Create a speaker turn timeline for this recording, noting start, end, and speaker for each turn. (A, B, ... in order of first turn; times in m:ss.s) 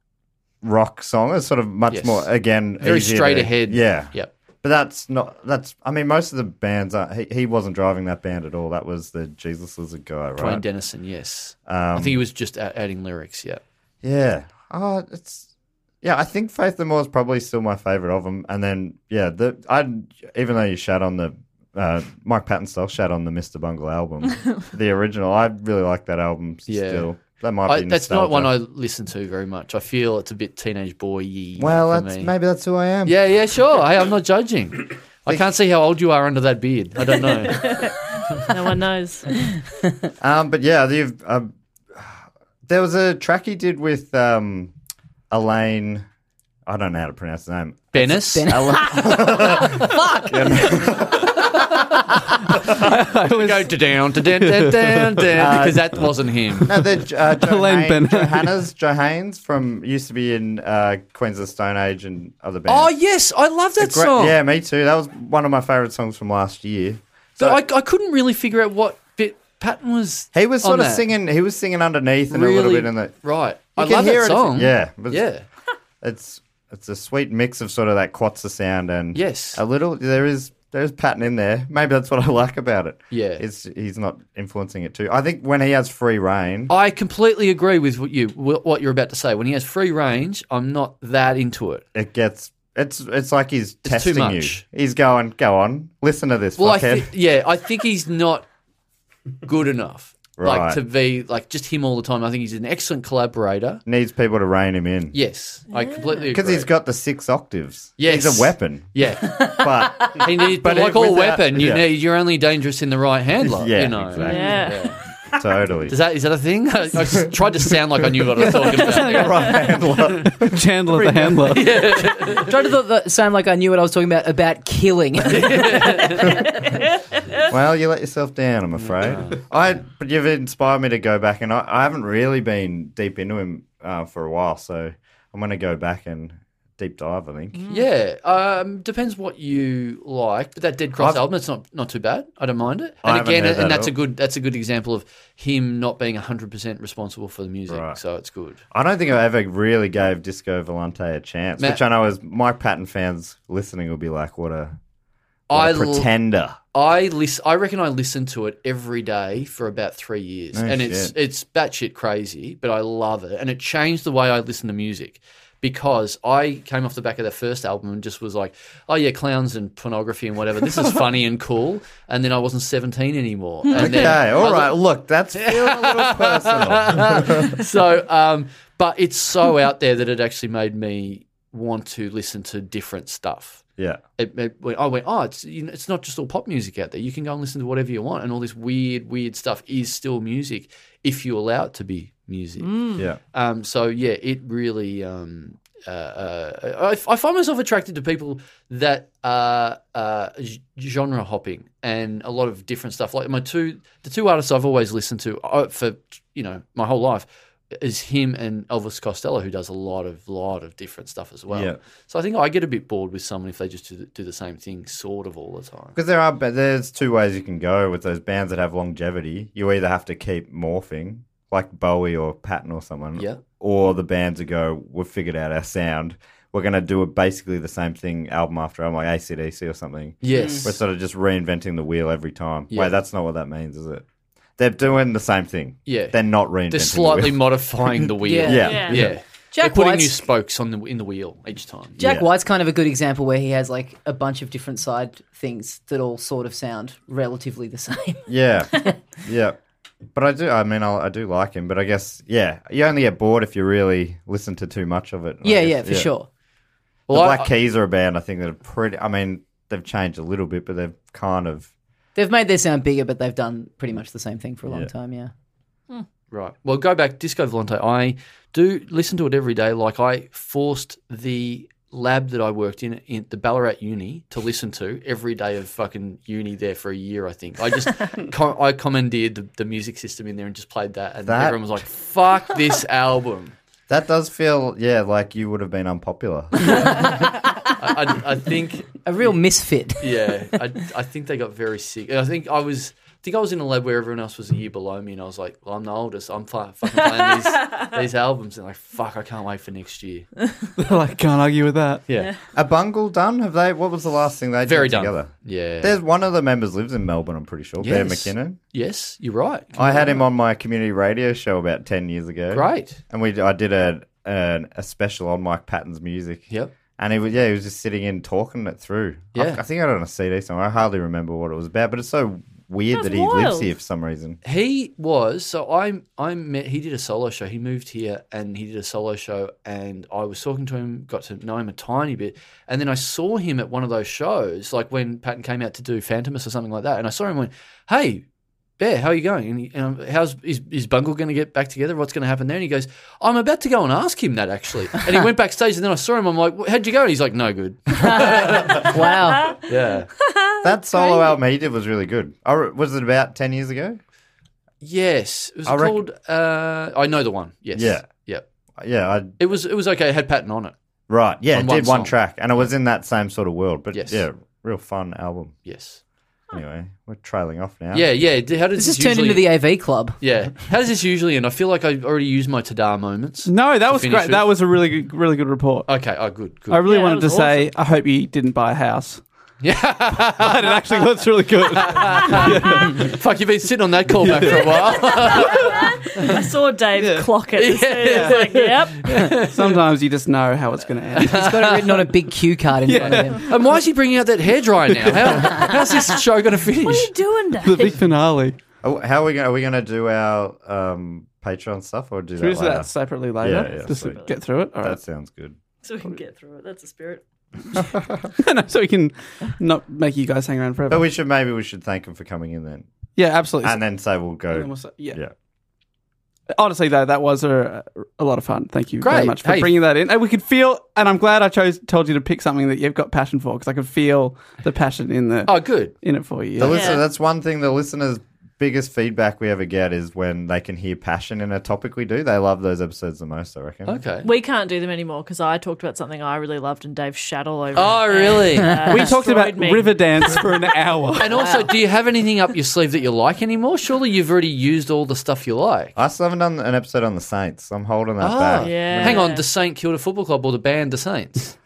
0:00.6-0:10.6 A
0:01.9-0:04.3 B
0:10.4-0:13.6 B
0:11.6-0:12.2 A
0:14.0-0:15.4 A
0:16.0-0:28.5 A
0:26.7-0:27.1 B
0:27.6-0:32.3 B
0:31.6-0:33.2 A
0:33.0-0:37.8 B
0:37.4-0:39.5 C
0:40.2-0:44.7 A
0:45.3-0:46.0 A
0:46.6-0:51.5 A
0:47.9-0:48.6 B
0:48.0-0:49.6 D
0:52.8-0:55.5 E
0:53.2-0:56.7 B
0:55.4-0:55.9 A
0:56.6-1:02.9 A
0:57.3-0:58.6 E
1:02.7-1:04.4 B
1:03.8-1:07.6 A
1:07.4-1:11.0 B
1:10.3-1:13.1 A
1:12.3-1:15.4 B
1:13.8-1:15.3 A
1:16.0-1:26.7 A
1:19.1-1:19.6 B
1:23.1-1:23.4 B
1:26.7-1:31.8 B
1:31.9-1:37.1 A
1:33.8-1:34.6 B
1:36.6-1:38.5 B
1:39.4-1:43.8 B
1:40.4-1:40.8 A
1:43.8-1:45.2 A
1:45.1-1:46.7 B
1:45.7-1:46.1 C
1:46.3-1:51.9 A
1:48.0-1:55.0 B
1:53.4-1:54.7 A
1:54.2-1:54.9 C
1:55.3-1:56.0 A
1:55.9-1:59.3 B
1:58.6-2:01.0 A
1:58.6-1:59.6 E
2:00.2-2:01.8 E
2:01.3-2:02.5 B
2:02.4-2:06.2 D
2:05.3-2:06.3 B
2:07.4-2:17.6 A
2:08.9-2:09.4 B
2:17.5-2:17.8 C
2:17.7-2:28.6 B
2:21.0-2:21.3 A
2:23.0-2:23.9 A
2:27.7-2:28.0 A
2:28.7-2:34.8 A
2:35.5-2:36.1 B
2:35.5-2:36.6 A
2:36.7-2:54.8 B
2:40.5-2:41.1 A
2:53.6-2:54.1 C
2:53.8-2:57.6 A
2:55.3-3:03.6 B
3:04.2-3:36.0 B
3:12.6-3:13.0 C
3:31.5-3:31.8 A
3:35.9-3:54.0 A
3:43.2-3:43.4 B
3:50.2-3:50.7 B
3:50.3-3:50.7 D
3:54.6-3:59.2 A
3:55.8-4:02.0 B
3:58.2-3:58.7 D
3:58.6-3:59.0 C
3:59.5-4:00.2 D
4:02.0-4:02.3 A
4:02.0-4:08.2 D
4:08.3-4:09.6 A
4:10.1-4:16.1 A
4:15.4-4:16.3 D
4:17.1-4:17.5 B
4:17.1-4:21.7 A
4:22.2-4:25.3 D
4:26.3-4:43.5 B
4:41.2-4:41.8 A
4:43.9-4:47.1 A
4:47.8-4:49.0 B
4:49.0-4:50.2 D
4:50.0-5:00.3 B
4:56.9-4:57.9 C
5:00.8-5:02.0 E
5:02.1-5:02.4 C
5:02.5-5:08.6 A
5:04.6-5:06.0 B
5:07.8-5:10.2 B
5:09.8-5:24.4 A
5:12.5-5:13.0 B
5:19.3-5:19.6 B
5:22.9-5:23.7 C
5:24.4-5:38.2 B
5:38.8-5:49.0 B
5:48.1-5:49.5 D
5:48.9-5:51.4 C
5:49.7-5:50.1 B
5:50.6-5:54.0 A
5:54.8-5:58.4 B
5:55.6-5:56.0 A
5:57.7-5:58.1 A
5:58.8-5:59.3 A
5:59.4-6:00.7 B
6:01.1-6:05.5 A
6:01.5-6:02.2 B
6:03.9-6:04.2 B
6:05.6-6:06.0 B
6:06.5-6:08.1 A
6:07.9-6:09.5 B
6:08.8-6:10.2 D
6:10.2-6:14.5 B
6:13.5-6:15.9 E
6:15.9-6:16.8 B
6:16.7-6:19.2 E
6:16.8-6:17.7 C
6:19.6-6:21.1 B
6:20.3-6:23.2 E
6:21.6-6:25.8 B
6:24.2-6:24.8 E
6:25.0-6:29.3 C
6:27.0-6:27.3 E
6:27.5-6:29.8 B
6:28.0-6:28.4 E
6:29.4-6:31.6 E
6:31.1-6:32.1 B
6:31.2-6:33.4 D
6:32.8-6:33.5 E
6:33.0-6:37.1 B
6:34.9-6:35.6 E
6:36.8-6:38.0 C
6:37.6-6:38.6 E
6:38.8-6:44.2 A
6:42.4-6:45.0 E
6:43.4-6:44.4 C
6:44.8-6:45.6 A
6:45.8-6:47.2 C
6:47.9-6:48.3 A
6:48.4-6:51.1 E
6:50.9-6:52.9 A
6:53.2-6:53.8 E
6:53.6-6:55.3 A
6:54.5-6:55.2 E
6:56.5-7:06.8 E
6:59.0-6:59.8 B
7:05.4-7:05.9 B
7:06.6-7:14.0 A
7:06.6-7:07.0 C
7:13.9-7:14.3 B
7:14.2-7:20.8 C
7:17.7-7:18.9 B
7:18.8-7:21.4 E
7:21.2-7:26.0 B
7:26.0-7:29.3 A
7:28.2-7:31.6 B
7:28.6-7:29.4 C